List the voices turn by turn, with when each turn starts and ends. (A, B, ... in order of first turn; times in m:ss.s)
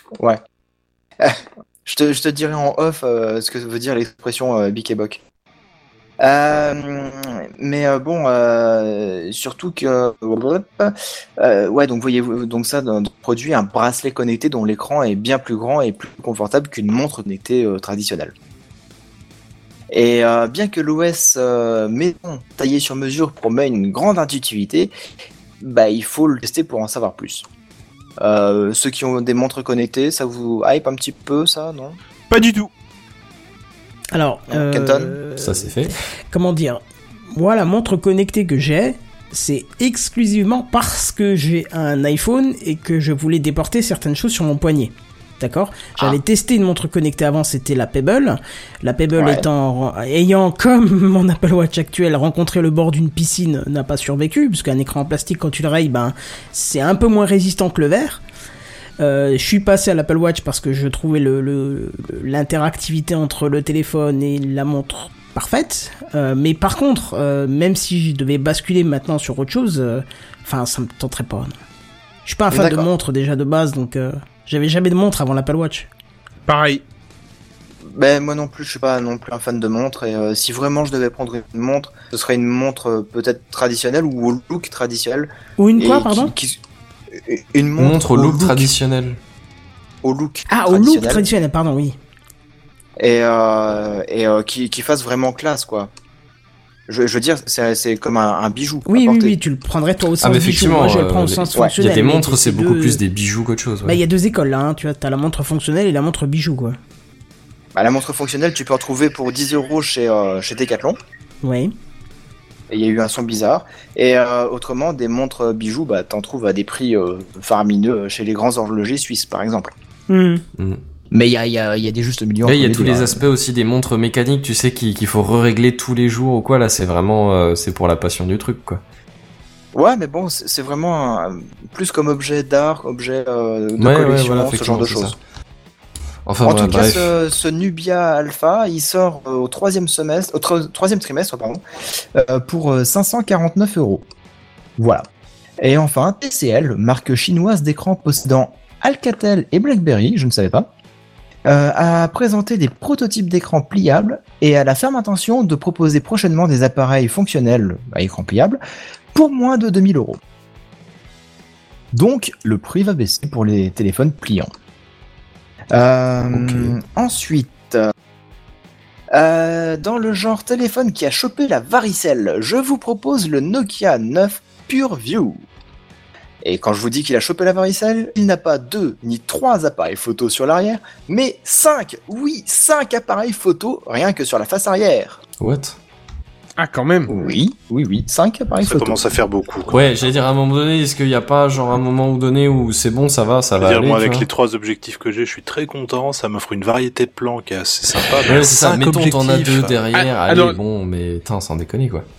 0:01.2-0:05.2 A
0:06.2-0:18.3 A
0:19.9-0:24.9 A
0:25.6-0:27.4 A
0:28.2-0:32.0 A
0:32.3-0:32.7 B
0:34.1-0:36.8 C
0:34.5-0:35.2 A
0:35.4-0:35.9 D
0:37.3-0:58.2 C
0:49.1-0:49.4 A
0:59.0-1:11.5 C
1:12.2-1:15.9 C
1:12.5-1:12.9 A
1:16.5-1:16.8 B
1:17.8-1:26.6 A
1:25.6-1:26.3 C
1:27.1-1:28.7 A
1:27.8-1:29.2 D
1:30.0-1:31.2 A
1:30.5-1:32.0 C
1:33.0-1:35.9 A
1:36.9-1:39.4 A
1:38.9-1:43.0 C
1:40.2-1:44.0 D
1:43.8-1:46.8 C
1:47.7-1:51.0 A
1:51.4-1:51.7 C
1:52.7-1:59.7 A
2:00.1-2:00.4 C
2:01.1-2:03.2 A
2:02.4-2:08.8 D
2:09.7-2:15.2 A
2:13.8-2:15.2 D
2:16.2-2:17.1 D
2:16.4-2:24.0 A
2:24.8-2:25.0 A
2:25.6-2:30.7 A
2:31.4-2:38.6 A
2:39.1-2:40.2 A
2:41.9-2:44.5 A
2:45.7-2:47.9 A
2:46.4-2:46.7 D
2:49.1-2:55.5 A
2:56.4-3:05.2 A
3:05.4-3:05.8 D
3:06.6-3:07.1 B
3:07.1-3:09.0 A
3:08.6-3:10.0 E
3:09.7-3:14.3 D
3:13.6-3:19.8 E
3:18.0-3:22.0 D
3:19.9-3:20.6 B